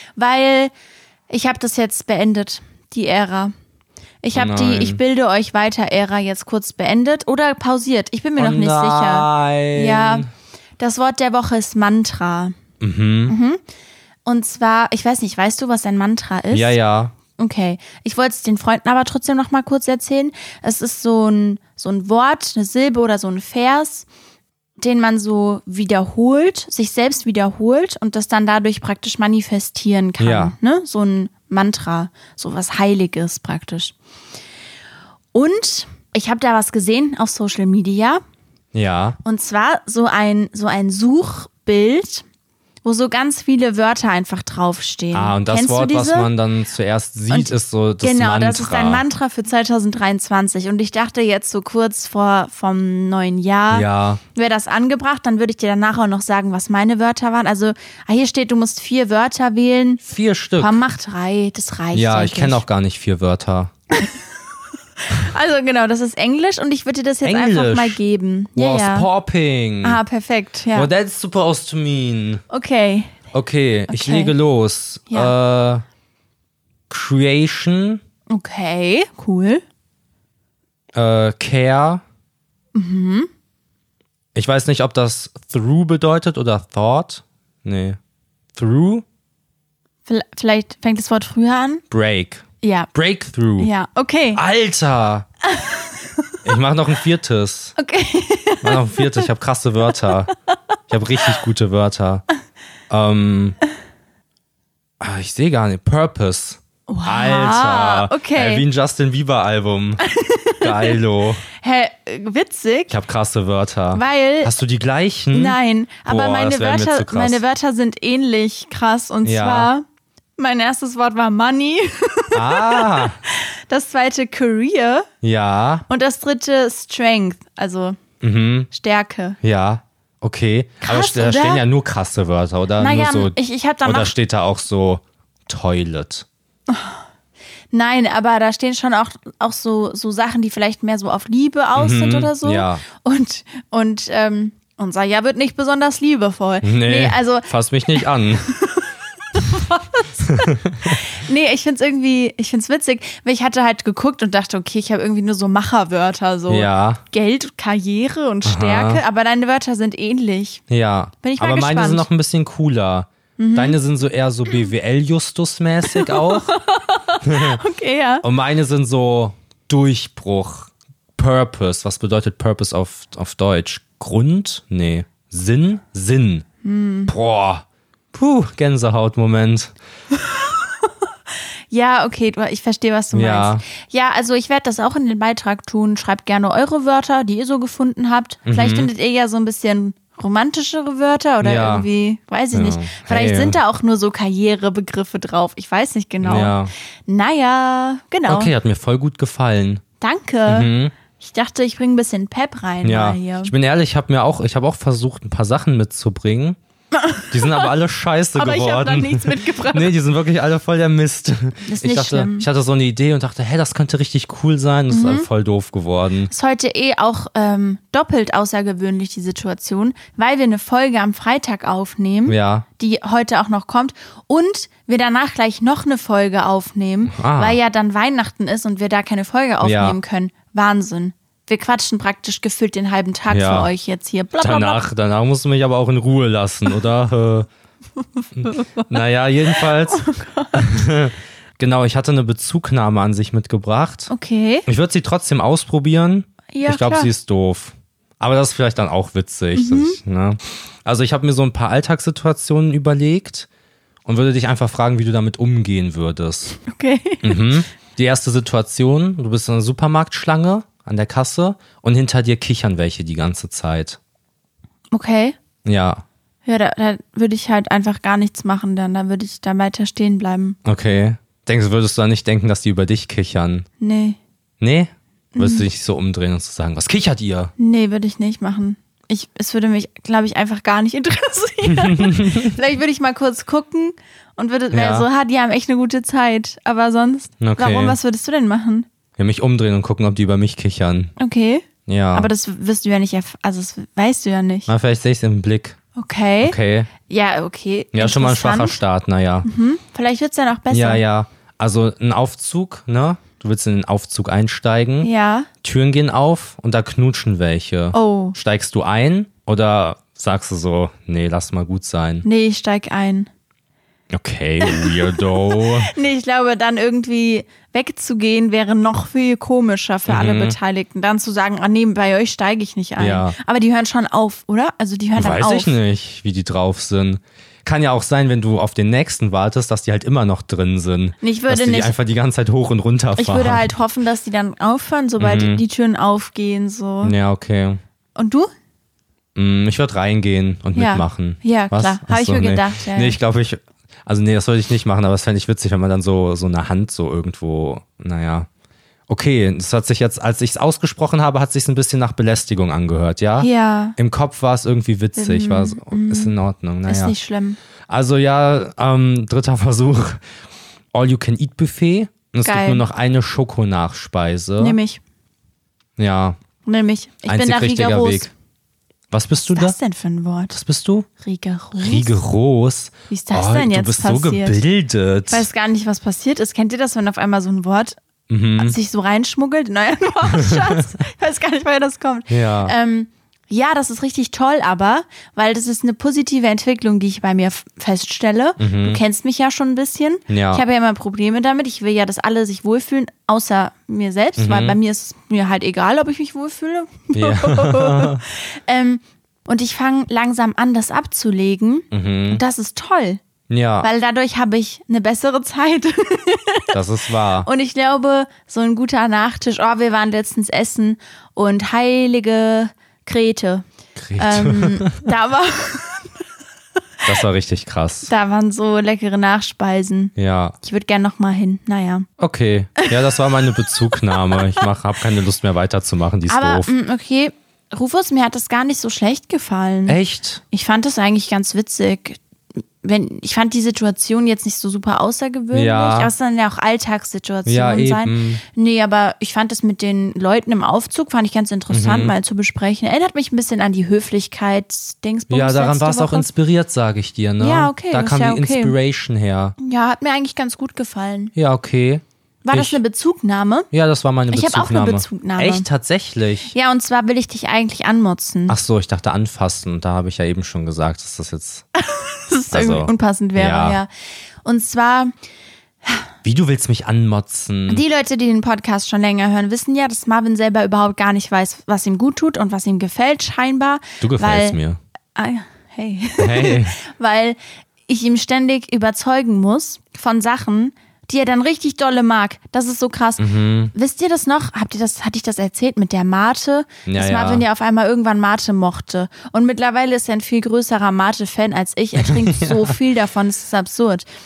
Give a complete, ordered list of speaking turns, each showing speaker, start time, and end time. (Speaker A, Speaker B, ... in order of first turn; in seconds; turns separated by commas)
Speaker A: 0.1-0.7, Speaker A: 1.3-3.5, Speaker A: 4.2-10.2, Speaker B: 4.3-5.0, Speaker B: 8.4-10.3, Speaker A: 10.8-12.6, Speaker B: 12.8-13.3, Speaker A: 13.3-13.6, Speaker A: 14.2-16.7, Speaker B: 16.5-17.1, Speaker A: 17.3-24.1, Speaker A: 24.8-33.9, Speaker B: 30.2-30.5, Speaker A: 35.3-38.2, Speaker B: 38.7-39.2, Speaker A: 39.2-42.2, Speaker A: 42.8-46.3, Speaker B: 45.1-49.0, Speaker A: 47.3-60.0, Speaker B: 53.7-54.2, Speaker B: 60.0-60.8, Speaker A: 60.6-62.6, Speaker B: 61.9-63.7, Speaker A: 63.9-64.4, Speaker A: 65.0-69.1, Speaker B: 67.2-68.0, Speaker B: 68.5-70.0, Speaker A: 69.8-70.9, Speaker B: 70.7-72.4, Speaker A: 72.5-73.2, Speaker B: 73.3-75.8, Speaker A: 73.9-74.3, Speaker B: 76.9-78.0, Speaker A: 78.3-79.6, Speaker B: 80.9-82.0, Speaker A: 82.7-83.3, Speaker B: 84.3-88.0, Speaker B: 88.5-89.0, Speaker A: 90.0-91.8, Speaker B: 91.9-93.7, Speaker A: 92.6-92.9, Speaker A: 93.6-94.4, Speaker B: 94.3-95.3, Speaker A: 95.4-96.4, Speaker B: 96.4-97.8, Speaker A: 97.8-99.2, Speaker B: 98.6-100.3, Speaker B: 100.9-102.2, Speaker B: 102.9-103.6, Speaker B: 105.0-110.1, Speaker A: 106.9-108.7, Speaker A: 110.0-111.0, Speaker B: 110.6-111.5, Speaker A: 111.5-112.9, Speaker B: 112.9-117.4, Speaker A: 113.9-114.5, Speaker A: 115.3-119.8, Speaker B: 119.2-119.7, Speaker A: 120.4-125.1, Speaker B: 122.3-123.2, Speaker B: 125.2-125.8, Speaker A: 125.9-128.0, Speaker B: 128.2-128.7, Speaker A: 128.7-129.4, Speaker B: 129.4-136.2, Speaker A: 130.8-131.6, Speaker A: 132.8-134.1, Speaker A: 136.7-137.0, Speaker A: 137.7-160.6, Speaker B: 141.7-142.8, Speaker B: 146.6-148.5, Speaker B: 150.2-151.0, Speaker B: 156.5-157.0, Speaker B: 158.4-159.0, Speaker B: 160.7-166.5, Speaker A: 161.2-162.1, Speaker A: 163.4-163.8, Speaker A: 165.9-168.2, Speaker B: 167.2-167.6, Speaker B: 168.2-176.4, Speaker A: 176.6-177.1, Speaker B: 177.1-179.7, Speaker A: 180.1-181.1, Speaker A: 181.7-198.5, Speaker B: 183.1-183.6, Speaker B: 188.4-188.9, Speaker B: 191.4-191.9, Speaker B: 192.5-193.6, Speaker B: 196.2-196.7, Speaker B: 198.3-199.8, Speaker A: 200.0-203.5, Speaker B: 200.5-200.9, Speaker B: 202.8-206.6, Speaker A: 206.9-207.7, Speaker B: 207.3-216.3, Speaker A: 208.3-209.9, Speaker A: 211.7-212.5, Speaker A: 214.9-215.3, Speaker A: 216.3-234.8, Speaker B: 222.2-222.6, Speaker B: 227.1-227.6, Speaker B: 229.6-230.0, Speaker B: 233.3-233.7, Speaker B: 234.4-237.5, Speaker A: 238.0-240.8, Speaker B: 238.3-244.1, Speaker A: 244.1-244.7, Speaker B: 244.7-253.5, Speaker A: 246.5-247.1, Speaker A: 249.5-250.0, Speaker B: 254.1-256.6, Speaker A: 256.6-257.5, Speaker B: 257.2-264.0, Speaker A: 264.9-265.4, Speaker B: 265.6-266.0, Speaker A: 266.4-270.6, Speaker B: 270.6-273.6, Speaker A: 273.8-274.2, Speaker B: 274.6-277.5, Speaker A: 275.3-275.6, Speaker A: 277.6-288.9, Speaker B: 281.6-282.5, Speaker B: 284.7-285.1, Speaker B: 287.4-288.0, Speaker B: 289.2-291.1, Speaker A: 291.2-294.7, Speaker B: 291.9-292.3, Speaker B: 294.7-295.8, Speaker A: 295.9-298.8, Speaker B: 296.4-296.9, Speaker B: 297.9-299.5, Speaker A: 299.4-301.0, Speaker B: 300.7-305.1, Speaker A: 305.0-305.5, Speaker B: 305.6-312.2, Speaker A: 307.9-308.4, Speaker A: 312.2-313.3, Speaker B: 314.1-315.9, Speaker A: 314.6-325.8, Speaker B: 320.1-320.6, Speaker B: 323.0-323.3, Speaker B: 325.1-333.7, Speaker A: 331.2-331.9, Speaker A: 333.2-337.1, Speaker B: 335.2-335.6, Speaker B: 337.0-337.8, Speaker A: 338.1-338.5, Speaker B: 339.4-348.5, Speaker A: 340.7-343.1, Speaker B: 349.1-357.1, Speaker A: 353.4-353.9, Speaker A: 355.1-356.3, Speaker A: 356.9-357.6, Speaker B: 357.9-360.2, Speaker B: 360.9-364.8, Speaker A: 362.4-362.8, Speaker A: 364.6-365.0, Speaker B: 366.0-366.4, Speaker A: 366.6-368.3, Speaker B: 367.3-368.3, Speaker B: 369.1-369.8, Speaker A: 369.5-370.6, Speaker B: 370.5-371.1, Speaker A: 371.2-372.2, Speaker B: 371.8-375.5, Speaker A: 373.1-374.6, Speaker A: 375.3-378.0, Speaker B: 378.3-378.8, Speaker A: 378.6-403.2, Speaker B: 380.4-380.8, Speaker B: 382.3-382.7, Speaker B: 388.6-389.0, Speaker B: 390.3-390.6, Speaker B: 394.4-394.8, Speaker B: 397.1-398.2, Speaker B: 401.9-402.4, Speaker B: 403.5-403.9, Speaker A: 403.8-406.8, Speaker B: 406.7-407.5, Speaker A: 407.4-413.6, Speaker B: 413.9-415.1, Speaker A: 414.2-416.2, Speaker B: 417.0-418.1, Speaker A: 418.1-422.1, Speaker B: 420.1-420.6, Speaker B: 422.2-426.7, Speaker A: 423.9-424.6, Speaker A: 426.3-430.0, Speaker B: 429.9-430.4, Speaker A: 430.5-432.2, Speaker A: 432.8-446.3, Speaker B: 435.5-436.1, Speaker B: 437.4-438.4, Speaker B: 441.7-442.1, Speaker B: 445.3-449.6, Speaker A: 447.4-448.8, Speaker A: 449.6-451.3, Speaker B: 451.3-452.8, Speaker A: 452.4-453.7, Speaker B: 453.7-456.5, Speaker A: 454.3-455.6, Speaker A: 456.5-458.6, Speaker B: 458.5-461.6, Speaker A: 461.8-463.9, Speaker B: 462.5-463.8, Speaker A: 464.4-465.1, Speaker B: 466.2-467.8, Speaker A: 467.7-474.6, Speaker B: 474.0-474.8, Speaker A: 475.1-494.1, Speaker B: 476.2-476.8, Speaker B: 483.2-483.7, Speaker B: 486.9-487.4, Speaker B: 492.0-492.7